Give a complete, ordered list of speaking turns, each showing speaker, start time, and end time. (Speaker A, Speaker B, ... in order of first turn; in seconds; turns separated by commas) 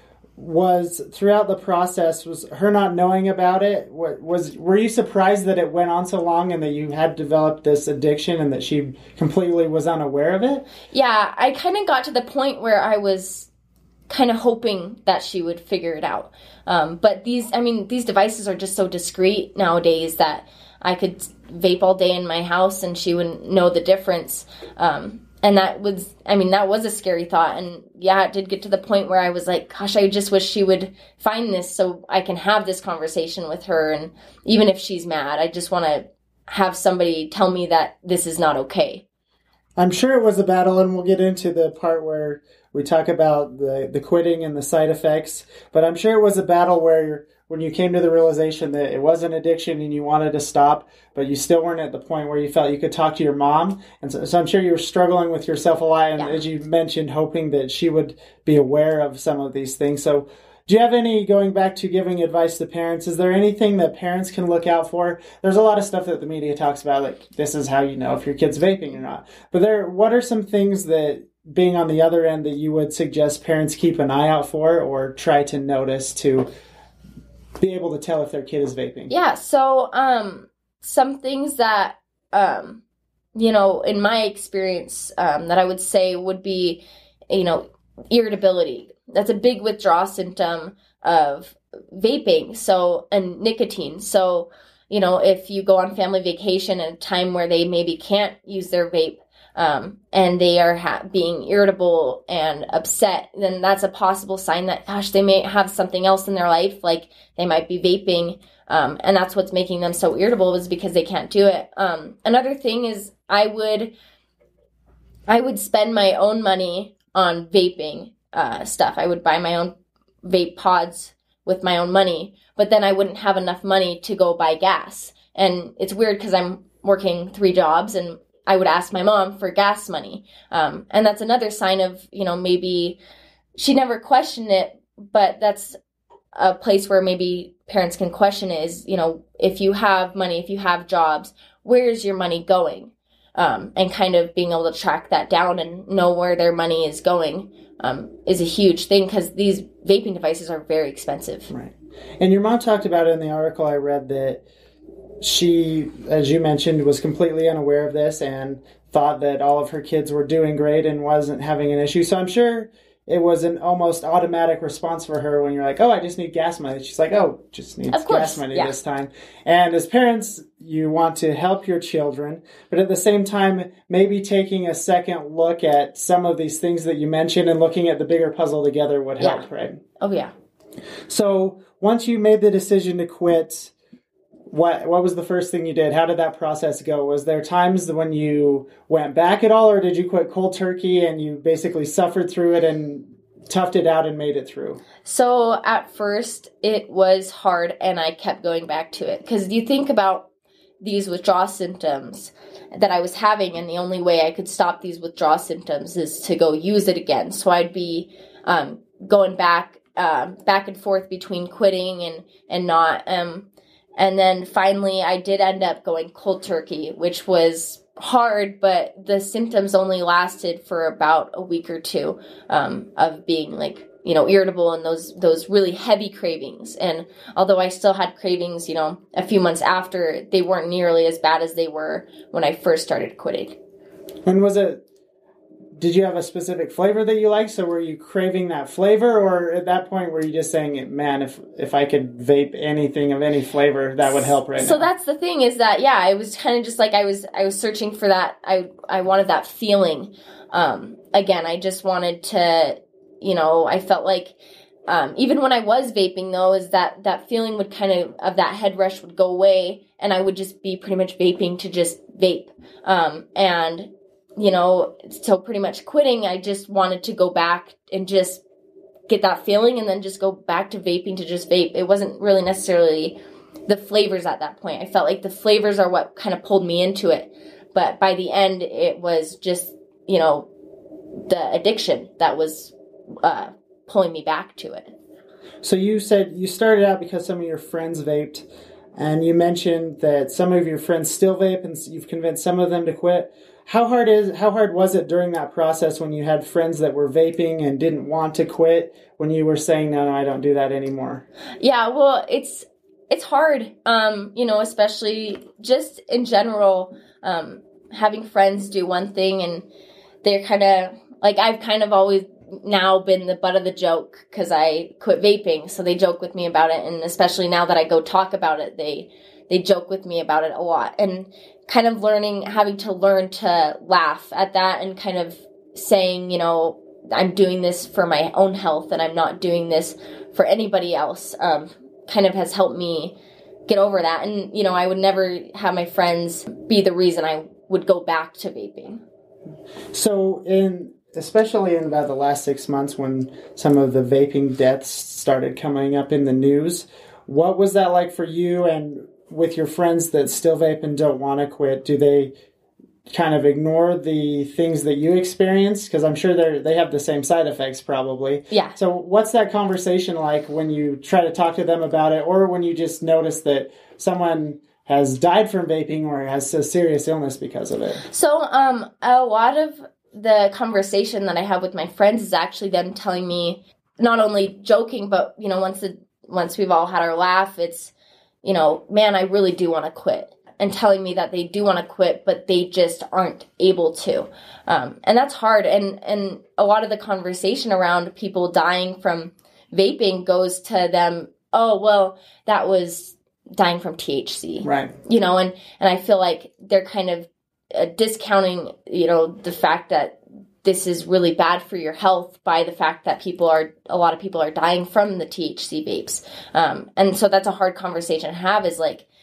Speaker A: 0.4-10.7, Speaker B: 10.9-13.5, Speaker B: 14.1-39.0, Speaker A: 39.8-76.5, Speaker A: 77.6-79.1, Speaker B: 79.1-82.8, Speaker B: 83.3-113.9, Speaker B: 115.3-133.0, Speaker B: 133.6-135.8, Speaker B: 136.3-151.5, Speaker A: 151.5-154.4, Speaker A: 155.2-179.8, Speaker B: 167.9-168.7, Speaker B: 179.2-179.5, Speaker B: 180.0-180.3, Speaker A: 181.1-183.7, Speaker A: 184.5-194.8, Speaker B: 195.1-200.3, Speaker B: 200.8-233.6, Speaker A: 234.2-234.8, Speaker A: 235.8-244.9, Speaker B: 244.0-254.4, Speaker B: 254.9-268.4, Speaker B: 269.1-280.5, Speaker B: 281.3-284.9, Speaker A: 285.6-301.2, Speaker B: 301.6-309.7, Speaker B: 310.2-333.2, Speaker B: 333.7-339.0, Speaker A: 339.9-352.3, Speaker A: 353.1-368.0, Speaker B: 358.5-358.8, Speaker B: 368.1-377.9, Speaker B: 378.4-409.1, Speaker A: 394.6-394.9